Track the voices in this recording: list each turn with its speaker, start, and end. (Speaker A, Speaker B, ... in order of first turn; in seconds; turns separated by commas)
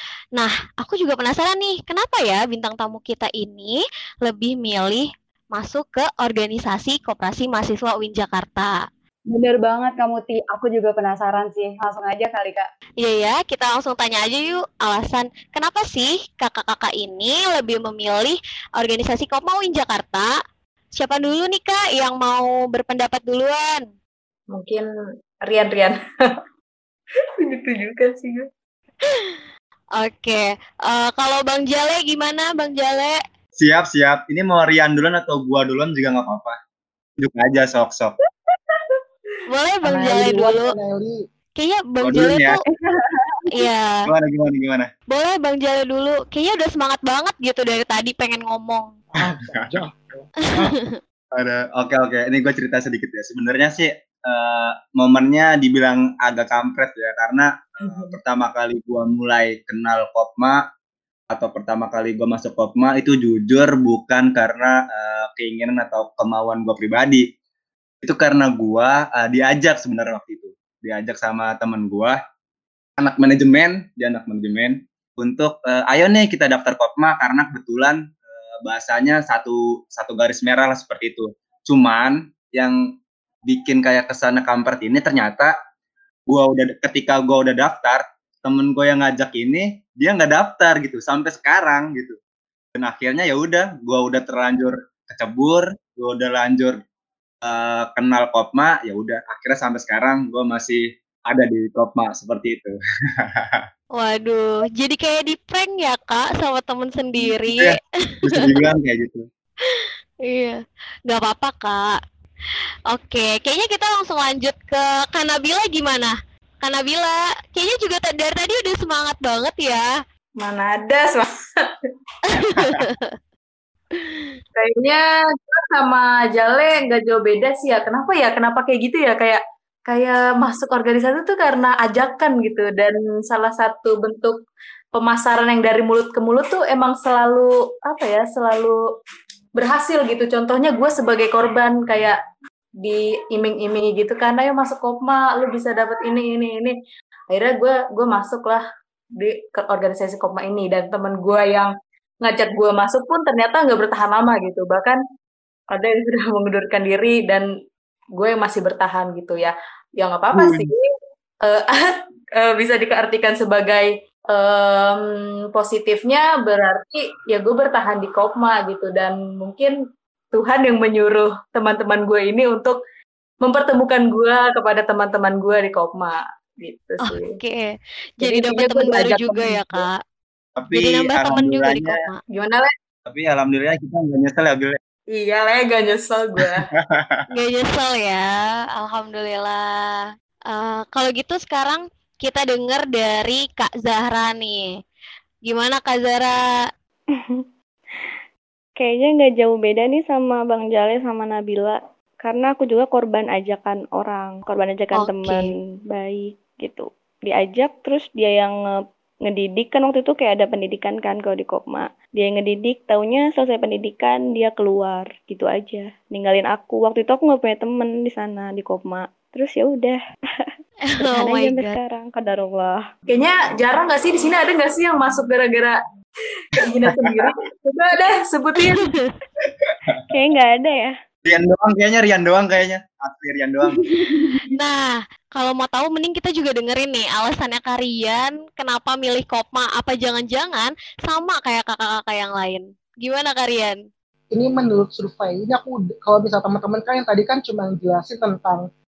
Speaker A: 0.4-8.7, Speaker B: 9.3-12.7, Speaker A: 13.0-20.3, Speaker A: 20.9-23.8, Speaker C: 24.5-24.9, Speaker C: 25.4-26.0, Speaker C: 27.4-28.5, Speaker A: 30.0-33.2, Speaker D: 33.5-36.6, Speaker D: 37.2-38.1, Speaker A: 39.5-40.7, Speaker E: 39.8-41.2, Speaker A: 41.6-42.6, Speaker D: 42.0-42.6, Speaker B: 42.7-43.6, Speaker A: 43.5-44.0, Speaker D: 44.1-44.9, Speaker A: 45.1-48.9, Speaker E: 49.2-50.3, Speaker D: 49.2-49.7, Speaker A: 50.4-51.0, Speaker D: 51.3-60.6, Speaker D: 61.3-67.3, Speaker D: 68.0-72.2, Speaker D: 73.0-82.8, Speaker D: 83.4-85.5, Speaker D: 86.3-92.2, Speaker D: 92.7-96.8, Speaker D: 97.4-102.7, Speaker A: 103.9-108.6, Speaker D: 107.2-109.2, Speaker A: 110.2-111.9, Speaker A: 112.9-119.9, Speaker C: 120.4-121.3, Speaker A: 122.4-123.1, Speaker C: 124.6-134.3, Speaker C: 134.9-138.8, Speaker C: 139.6-142.2, Speaker C: 142.8-146.7, Speaker C: 147.3-148.6, Speaker C: 149.2-151.7, Speaker C: 152.2-155.0, Speaker C: 155.7-157.4, Speaker C: 158.2-160.8, Speaker D: 160.3-160.7, Speaker C: 161.4-169.7, Speaker C: 170.3-172.8, Speaker C: 173.4-177.4, Speaker A: 177.0-179.9, Speaker C: 178.2-179.9, Speaker D: 180.6-182.1, Speaker A: 180.7-182.2, Speaker C: 182.3-182.7, Speaker D: 183.1-184.8, Speaker C: 185.1-186.6, Speaker D: 186.4-187.2, Speaker A: 187.3-190.0, Speaker A: 190.5-194.6, Speaker A: 195.4-196.3, Speaker F: 197.3-198.1, Speaker F: 198.8-208.5, Speaker A: 204.9-205.5, Speaker F: 209.2-222.8, Speaker A: 220.8-221.8, Speaker C: 223.1-225.8, Speaker C: 226.7-228.6, Speaker D: 226.8-227.2, Speaker F: 230.1-230.9, Speaker D: 231.2-233.8, Speaker A: 234.5-234.8, Speaker A: 235.3-243.8, Speaker E: 244.3-248.6